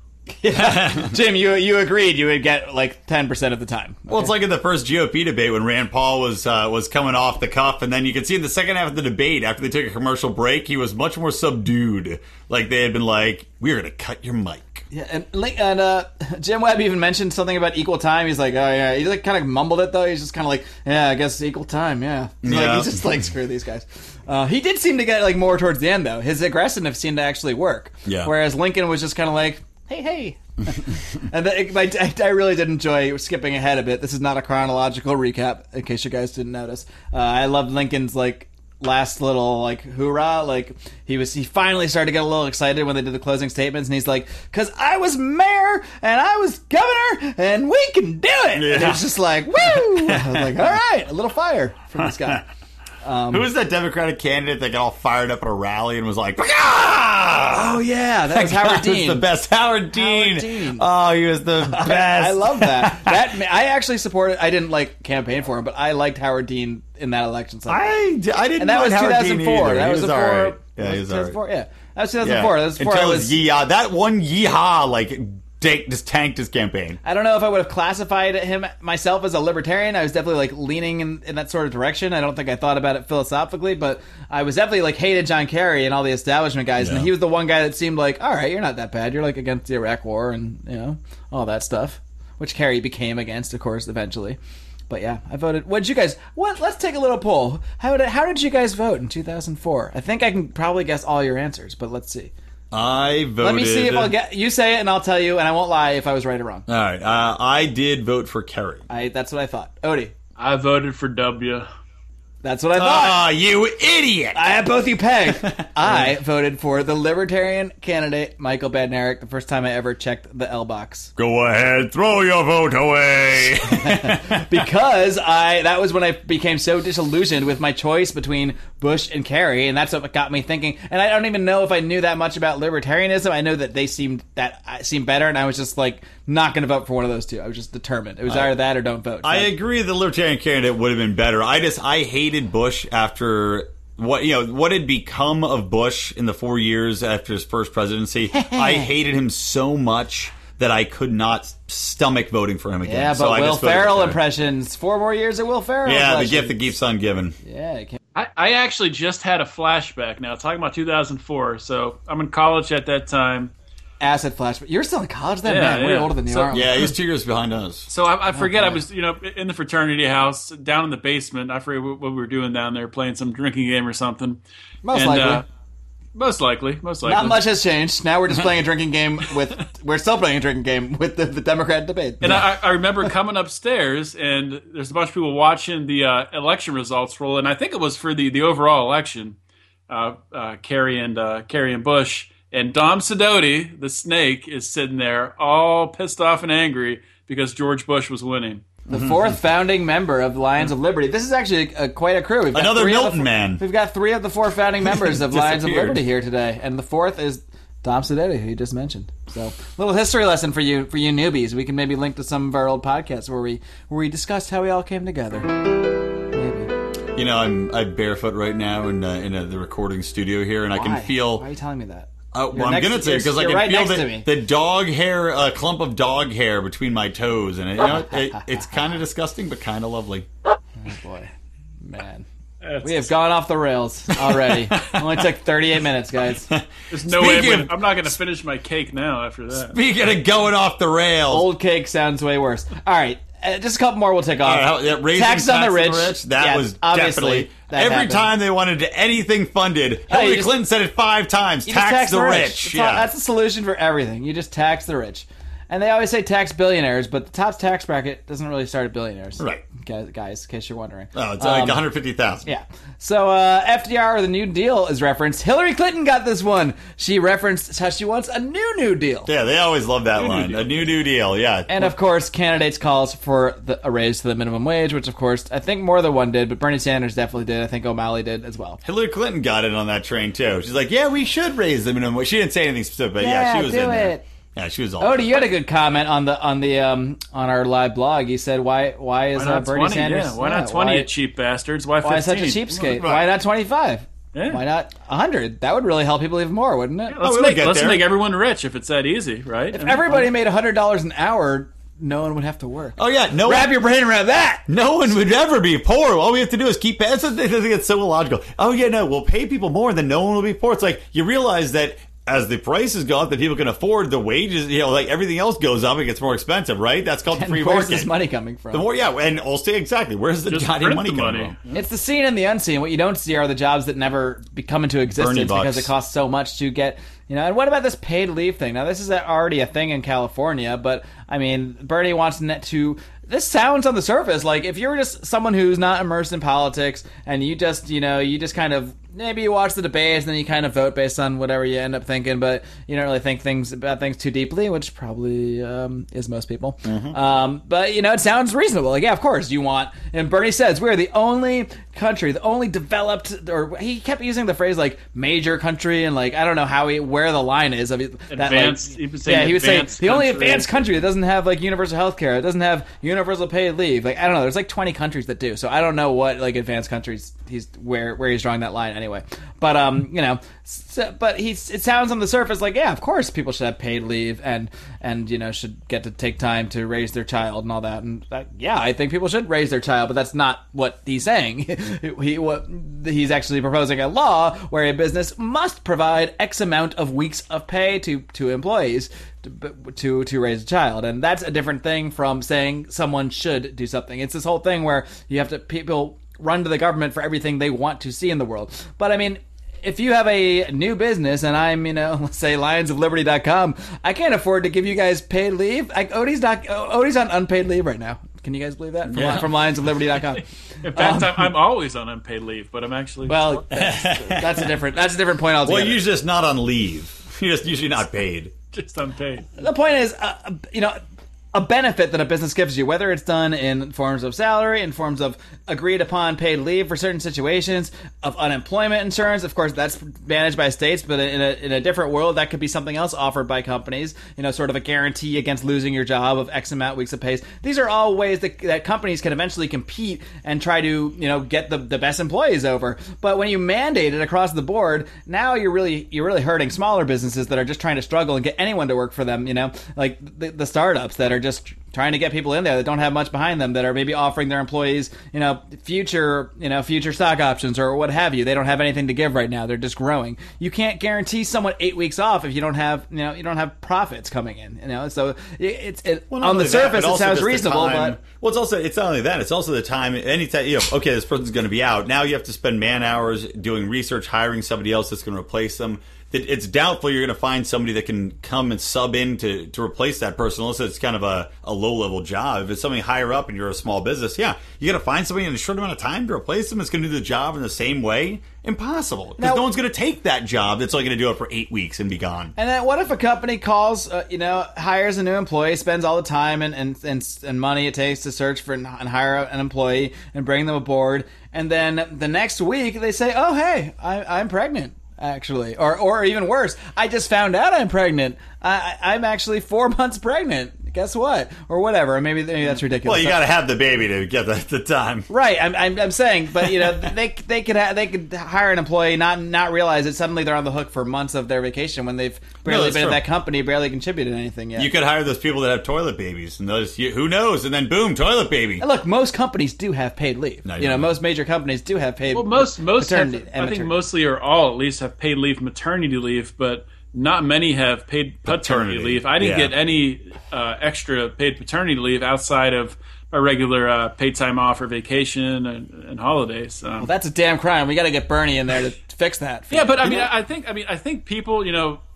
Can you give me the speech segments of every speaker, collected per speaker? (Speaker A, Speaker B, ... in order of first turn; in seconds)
Speaker A: 0.4-4.3, 14.9-52.4, 53.0-53.5, 57.5-59.2, 59.9-60.9, 61.6-67.9, 68.6-73.3, 77.0-102.3, 103.4-106.7, 108.9-110.1, 112.4-113.2, 114.3-121.1, 123.7-139.5, 148.3-148.9, 152.8-156.7, 157.4-158.0, 164.0-166.9, 168.3-168.8, 174.8-175.4, 177.0-182.4, 198.9-216.7, 220.7-224.3, 230.8-231.3, 231.8-232.2, 232.8-236.5, 241.3-248.3, 250.1-250.5, 251.7-261.8, 262.4-269.3, 271.7-278.8, 283.2-284.2, 285.0-291.1, 292.0-297.2, 299.7-304.7, 317.3-318.9, 321.7-411.5, 413.2-416.0, 419.6-421.0, 421.5-468.2, 489.4-489.7, 492.6-513.4, 515.3-524.9, 528.8-533.9, 547.0-550.3
Speaker B: 0.5-1.1, 4.1-14.8, 22.4-23.2, 28.1-28.3, 48.5-49.0, 49.6-50.6, 52.0-52.3, 53.3-63.2, 67.7-71.4, 72.2-77.0, 86.8-87.1, 102.7-104.1, 106.7-108.8, 112.8-114.5, 115.3-116.1, 121.2-124.6, 139.2-154.2, 155.8-157.3, 166.5-167.9, 198.9-199.3, 202.5-203.6, 204.8-206.0, 217.1-221.4, 222.3-230.3, 234.2-235.2, 236.5-237.9, 239.5-241.5, 244.4-253.1, 259.4-259.6, 261.1-262.5, 269.2-271.9, 278.8-285.4, 293.0-293.3, 297.2-298.1, 303.0-303.7, 304.7-318.1, 318.7-321.5, 325.1-325.9, 346.8-347.1, 409.1-409.6, 413.7-414.7, 415.6-418.5, 466.3-492.5, 512.9-515.3, 522.6-523.2, 524.8-528.8, 530.6-531.1, 538.5-539.7
Speaker C: 110.4-111.7, 158.1-163.5, 165.4-166.7, 167.9-174.4, 174.9-175.4, 176.1-177.4, 182.2-189.4, 189.9-198.7, 232.6-233.1, 236.9-239.8, 270.1-270.9, 289.4-293.0, 294.3-294.6, 297.1-300.3, 320.5-321.8, 358.3-360.7, 410.8-413.6, 418.7-419.5, 532.3-547.1, 549.7-552.0